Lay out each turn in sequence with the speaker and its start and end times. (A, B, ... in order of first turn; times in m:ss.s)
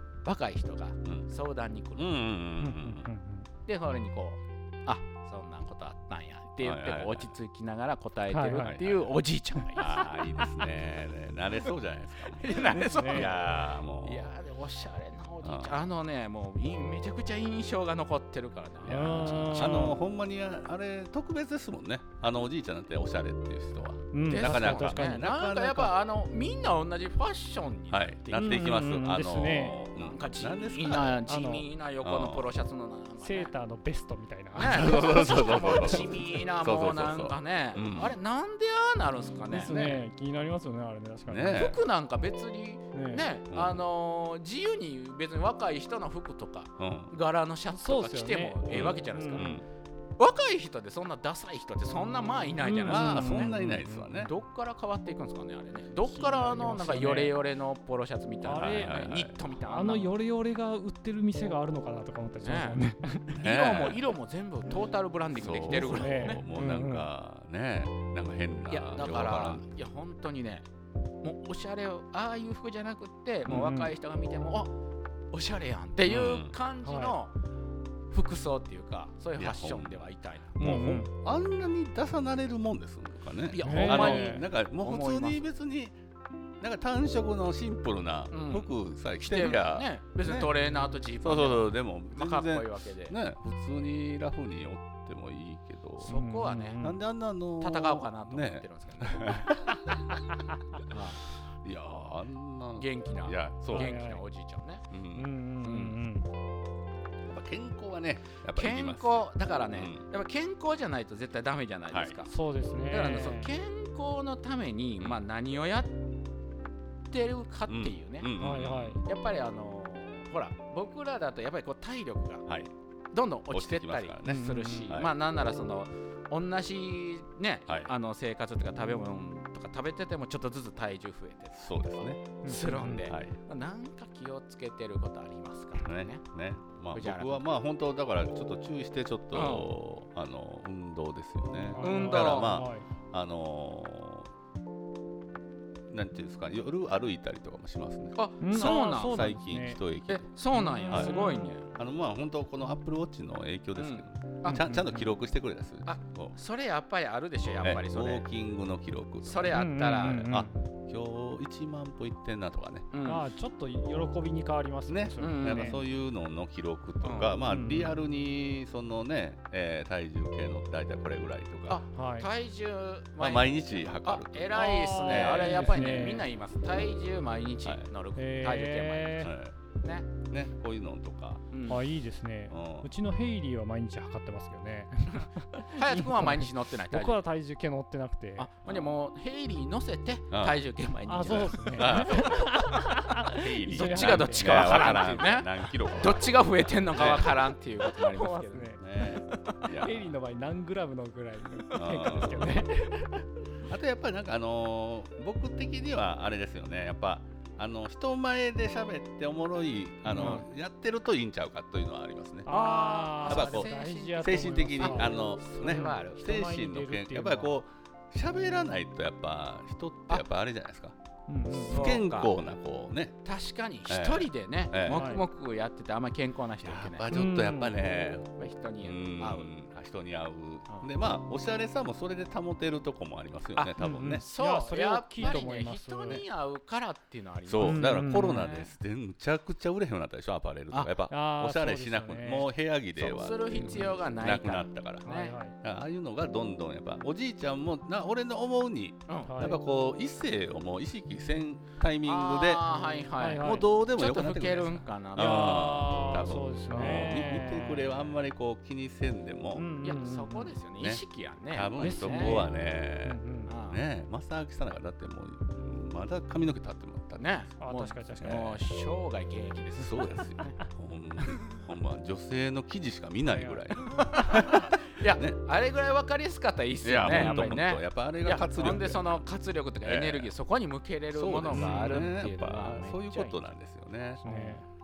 0:00.2-0:02.2 A
0:02.0-0:03.1 B
0:02.6-0:03.5 C
0:03.6-0:10.0 A
0:06.6-0:07.3 B
0:08.3-0:08.8 C
0:08.6-0:09.1 B
0:09.7-0:14.3 B
0:09.9-0:10.5 C
0:12.3-0:20.0 A
0:12.7-0:13.3 C
0:15.4-0:15.8 B
0:18.8-0:25.9 B
0:18.9-0:20.0 C
0:24.1-0:25.2 C
0:24.2-0:28.6 A
0:27.9-0:31.2 B
0:28.3-0:29.8 C
0:30.0-0:33.5 A
0:31.2-0:31.7 C
0:32.0-0:32.5 B
0:33.2-0:36.0 C
0:34.5-0:40.0 A
0:34.6-0:38.2 B
0:39.4-0:41.7 C
0:41.3-0:41.8 B
0:41.5-0:49.6 A
0:42.9-0:43.2 C
0:43.5-0:43.8 B
0:46.8-0:47.1 B
0:47.7-0:49.6 C
0:48.7-0:49.6 B
0:50.2-0:53.5 A
0:52.6-0:54.3 C
0:52.9-0:54.3 B
0:54.2-1:00.1 A
0:56.0-0:57.4 C
0:58.4-1:03.3 C
0:58.5-0:59.3 B
1:02.4-1:06.4 A
1:03.4-1:04.0 B
1:05.3-1:09.6 B
1:05.7-1:07.1 C
1:08.7-1:10.6 A
1:11.2-1:14.7 A
1:13.4-1:13.9 C
1:15.3-1:17.3 A
1:16.0-1:16.6 B
1:16.8-1:17.1 C
1:18.1-1:20.7 A
1:19.4-1:20.0 B
1:20.6-1:26.0 B
1:20.6-1:21.1 C
1:23.5-1:25.4 A
1:23.6-1:24.4 C
1:26.6-1:30.5 B
1:28.3-1:33.2 A
1:31.2-1:36.2 B
1:36.0-1:36.8 A
1:36.0-1:37.0 C
1:36.8-1:40.0 B
1:37.6-1:39.5 A
1:40.9-1:41.2 A
1:41.6-1:43.9 B
1:42.8-1:44.8 A
1:43.7-1:44.2 C
1:44.9-1:45.3 B
1:45.1-1:46.3 C
1:45.6-1:46.0 A
1:47.2-1:50.0 B
1:48.5-1:52.3 A
1:51.9-1:52.2 B
1:52.3-1:53.5 C
1:52.9-1:55.9 A
1:57.1-1:58.3 A
1:57.7-1:59.0 B
1:58.4-1:59.0 C
1:59.0-2:02.4 A
2:02.5-2:02.7 B
2:03.1-2:16.2 A
2:03.5-2:05.1 B
2:04.2-2:04.9 C
2:07.7-2:07.9 B
2:11.5-2:12.2 B
2:12.4-2:13.0 C
2:13.0-2:13.4 B
2:15.8-2:24.3 B
2:16.9-2:17.4 A
2:19.3-2:19.7 A
2:21.7-2:22.8 C
2:21.8-2:22.5 A
2:25.9-2:30.3 B
2:28.2-2:29.3 A
2:28.4-2:29.8 C
2:30.1-2:31.7 A
2:30.5-2:31.5 C
2:31.7-2:36.4 B
2:33.8-2:34.6 A
2:34.4-2:35.1 C
2:35.9-2:38.2 A
2:37.6-2:42.9 B
2:39.2-2:40.2 A
2:39.5-2:40.6 C
2:42.9-2:43.2 A
2:43.0-2:45.8 C
2:44.9-2:51.8 B
2:45.2-2:45.8 A
2:47.0-2:47.4 A
2:47.5-2:48.0 C
2:51.7-3:00.1 A
2:51.9-2:52.3 C
2:53.2-2:56.0 B
2:54.5-2:56.3 C
2:58.2-2:59.3 C
2:59.2-2:59.6 B
3:00.2-3:01.4 B
3:01.5-3:01.8 A
3:01.7-3:08.5 C
3:02.5-3:02.9 B
3:05.1-3:07.2 A
3:08.4-3:12.4 A
3:08.6-3:08.9 B
3:10.3-3:10.6 B
3:11.1-3:15.1 C
3:11.3-3:12.7 B
3:13.4-3:17.4 B
3:13.7-3:19.6 A
3:17.9-3:18.8 C
3:18.8-3:20.1 B
3:19.7-3:23.2 C
3:21.7-3:22.6 A
3:21.7-3:22.6 B
3:23.7-3:32.5 B
3:30.0-3:30.4 C
3:30.2-3:30.4 A
3:32.4-3:37.5 C
3:32.5-3:36.2 A
3:33.2-3:41.0 B
3:41.3-3:41.9 C
3:41.5-3:43.2 B
3:41.6-3:42.3 A
3:43.2-3:47.1 A
3:43.9-3:45.1 B
3:44.9-3:45.2 C
3:46.6-3:48.3 B
3:47.1-3:47.8 C
3:48.4-3:49.5 A
3:48.8-3:54.2 B
3:53.6-3:58.7 A
3:53.8-3:56.2 C
3:57.4-4:12.6 B
3:57.6-3:58.5 C
4:01.1-4:02.5 C
4:03.0-4:05.4 A
4:05.0-4:05.6 C
4:09.1-4:09.4 A
4:09.3-4:09.6 C
4:12.0-4:15.7 A
4:13.2-4:13.6 C
4:13.4-4:19.7 B
4:15.2-4:18.1 C
4:16.7-4:17.2 A
4:19.5-4:20.5 C
4:19.8-4:22.4 A
4:20.8-4:27.2 B
4:21.8-4:23.5 C
4:23.4-4:23.8 A
4:27.2-4:30.5 A
4:27.6-4:28.6 C
4:28.2-4:28.5 B
4:29.8-4:35.4 B
4:33.3-4:34.6 C
4:33.9-4:43.5 A
4:36.8-4:39.2 B
4:37.0-4:37.6 C
4:38.6-4:39.0 C
4:39.8-4:40.3 B
4:41.1-4:44.2 B
4:41.5-4:42.1 C
4:44.2-4:44.7 C
4:44.2-4:44.5 A